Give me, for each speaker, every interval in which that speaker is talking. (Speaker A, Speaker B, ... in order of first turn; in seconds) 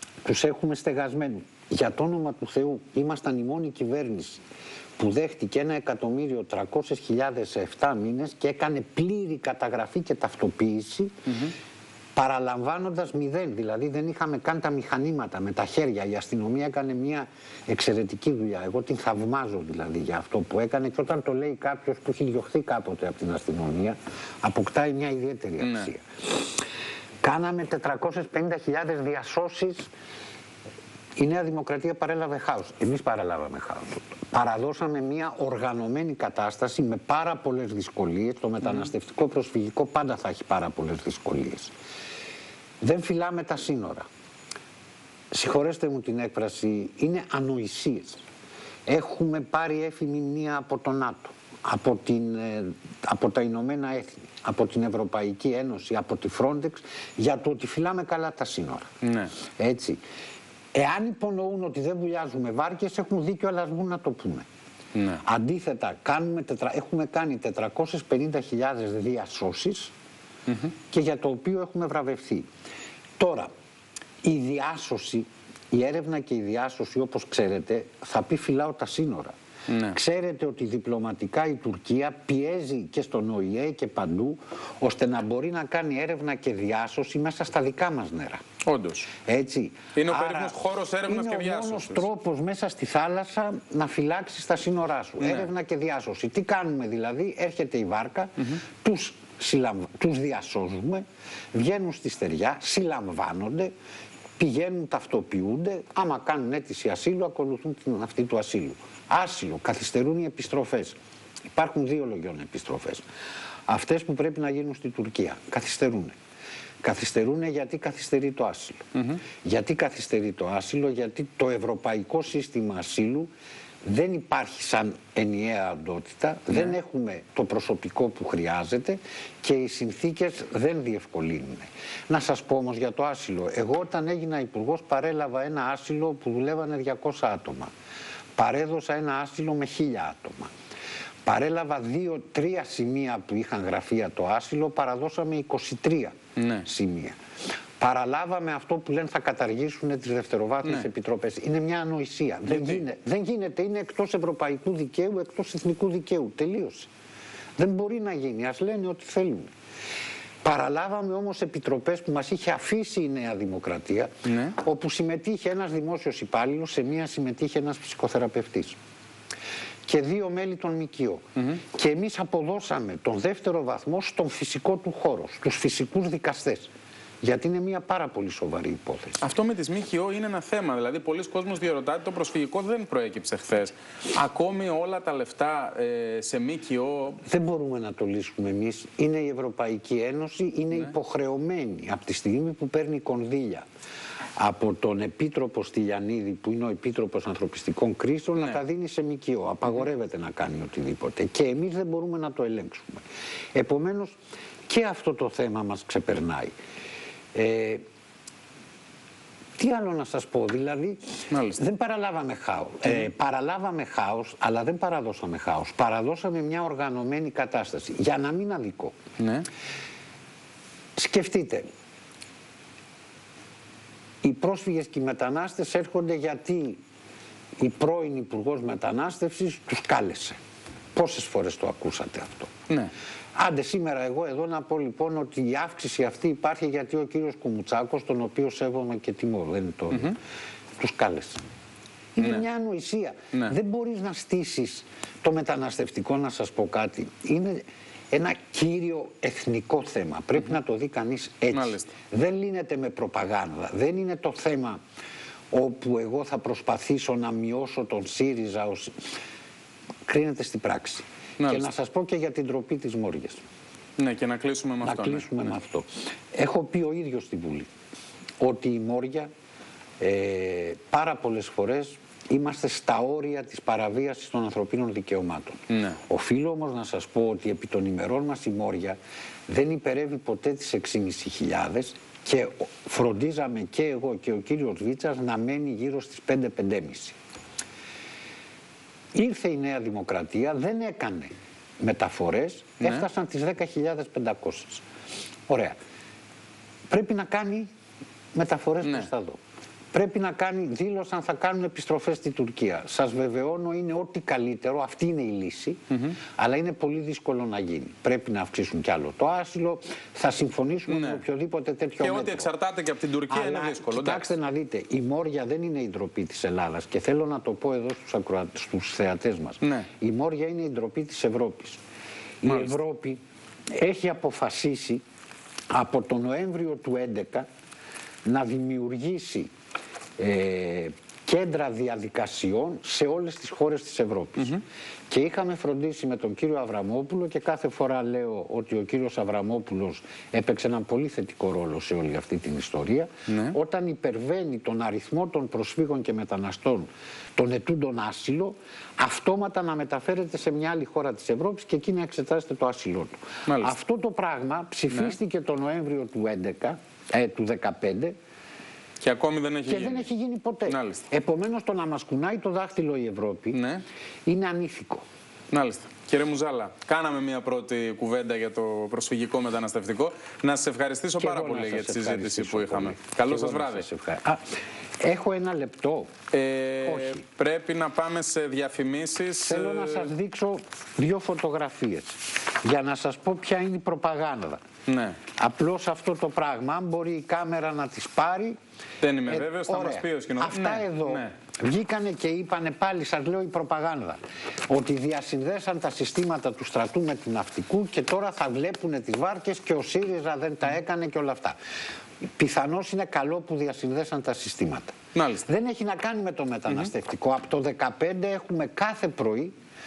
Speaker A: 0.2-4.4, 5.0-11.3, 12.2-26.1, 27.2-29.9, 31.2-41.7, 42.8-44.0, 45.3-48.2, 48.9-58.9, 59.6-60.0, 60.7-64.5, 65.2-69.9, 70.9-72.5, 73.2-73.5, 74.2-79.3, 79.9-88.4, 89.2-103.7, 104.4-111.0, 111.5-113.0, 113.7-116.2, 116.8-118.9, 119.4-123.3, 123.8-137.7, 138.3-140.5, 141.2-147.2, 147.8-156.9, 157.6-159.5, 160.4-168.8, 169.9-176.7, 177.2-179.2, 187.2-193.7, 194.4-204.2, 204.7-206.5, 207.3-207.8, 209.6-211.0, 211.5-218.9, 221.0-221.7, 224.2-226.8, 227.6-230.4, 230.9-232.5, 233.3-240.2, 240.8-241.4, 242.2-254.8, 255.5-258.9, 260.1-263.4, 264.8-267.7, 268.4-269.3, 270.0-287.1, 289.1-294.8, 295.5-295.8, 296.9-297.7, 298.3-299.4, 299.9-312.5, 313.3-321.8, 322.4-323.2, 323.7-325.0, 325.7-327.5, 328.2-329.5, 330.2-358.1, 359.7-363.6, 364.2-365.0, 371.2-374.4, 375.0-376.1, 376.8-377.2, 379.4-384.6, 385.4-388.6, 389.3-401.6, 402.4-409.5
Speaker B: 25.6-25.9, 59.0-59.3, 64.9-65.2, 70.5-70.7, 79.7-80.0, 88.6-89.1, 89.9-92.0, 95.2-95.5, 118.9-119.2, 146.3-146.7, 152.5-152.8, 164.2-164.6, 179.2-187.2, 211.3-211.6, 219.2-219.5, 251.5-251.9, 261.4-261.7, 264.0-265.3, 275.7-276.0, 298.8-299.1, 305.9-306.2, 310.9-311.2, 312.0-314.3, 319.6-319.9, 322.4-322.8, 343.3-343.6, 353.4-353.7, 354.9-355.2, 359.0-360.1, 360.7-361.0, 363.5-363.8, 365.5-373.9, 376.3-380.1, 384.9-385.2, 389.0-391.3, 405.1-405.4